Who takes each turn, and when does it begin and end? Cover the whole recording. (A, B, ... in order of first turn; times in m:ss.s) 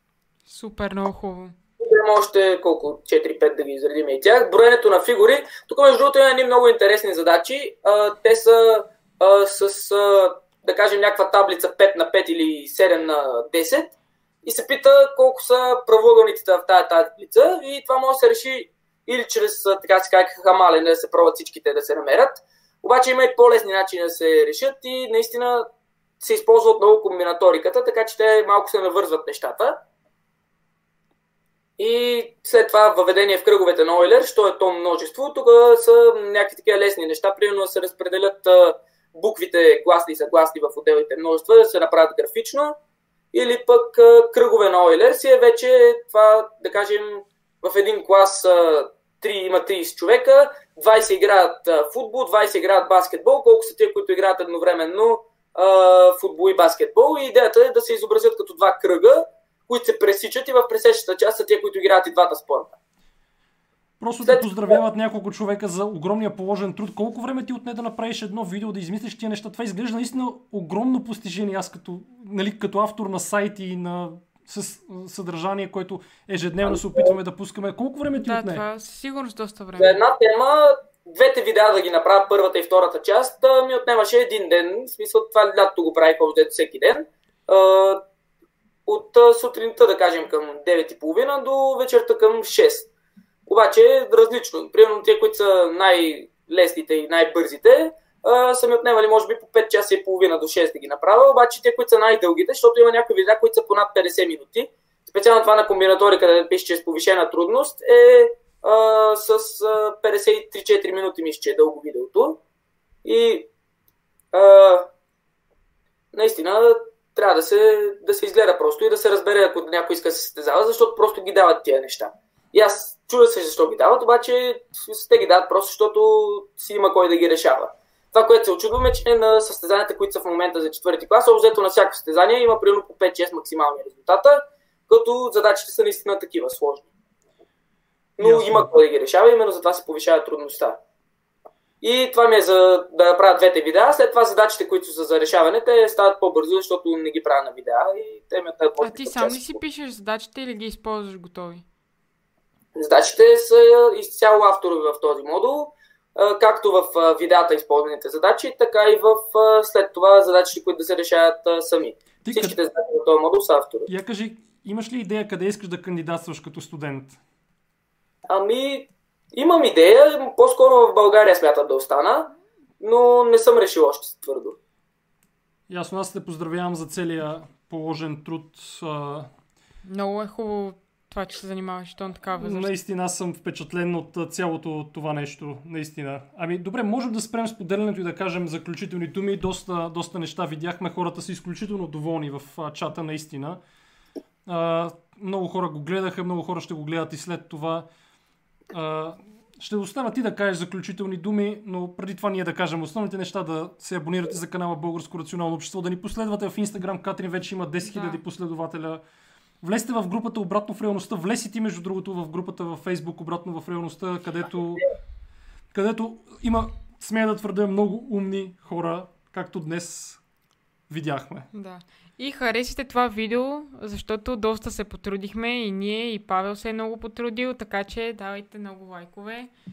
0:00.5-0:01.5 A
0:01.8-0:25.7 B
0:26.2-0:29.8 B
0:31.8-0:42.8 B
0:43.3-1:02.8 B
1:04.0-1:18.6 C
1:04.2-1:04.8 B
1:16.7-1:17.1 B
1:18.1-1:20.0 A
1:19.8-1:28.0 B
1:28.8-1:32.9 B
1:33.5-1:52.4 B
1:53.0-1:53.5 B
1:54.3-1:54.9 B
1:56.1-2:16.9 B
2:18.2-2:20.8 B
2:18.2-2:18.7 C
2:21.8-2:29.6 B
2:28.8-2:31.6 A
2:32.8-2:43.9 B
2:42.2-2:42.6 C
2:43.9-2:47.2 C
2:48.3-2:54.6 B
2:55.7-2:59.3 C
2:59.8-3:02.7 A
3:02.4-3:13.6 C
3:14.4-3:17.8 C
3:18.7-3:29.0 C
3:27.8-3:28.2 A
3:29.6-3:34.8 C
3:35.7-3:40.2 C
3:40.9-3:41.5 C
3:41.5-3:49.5 A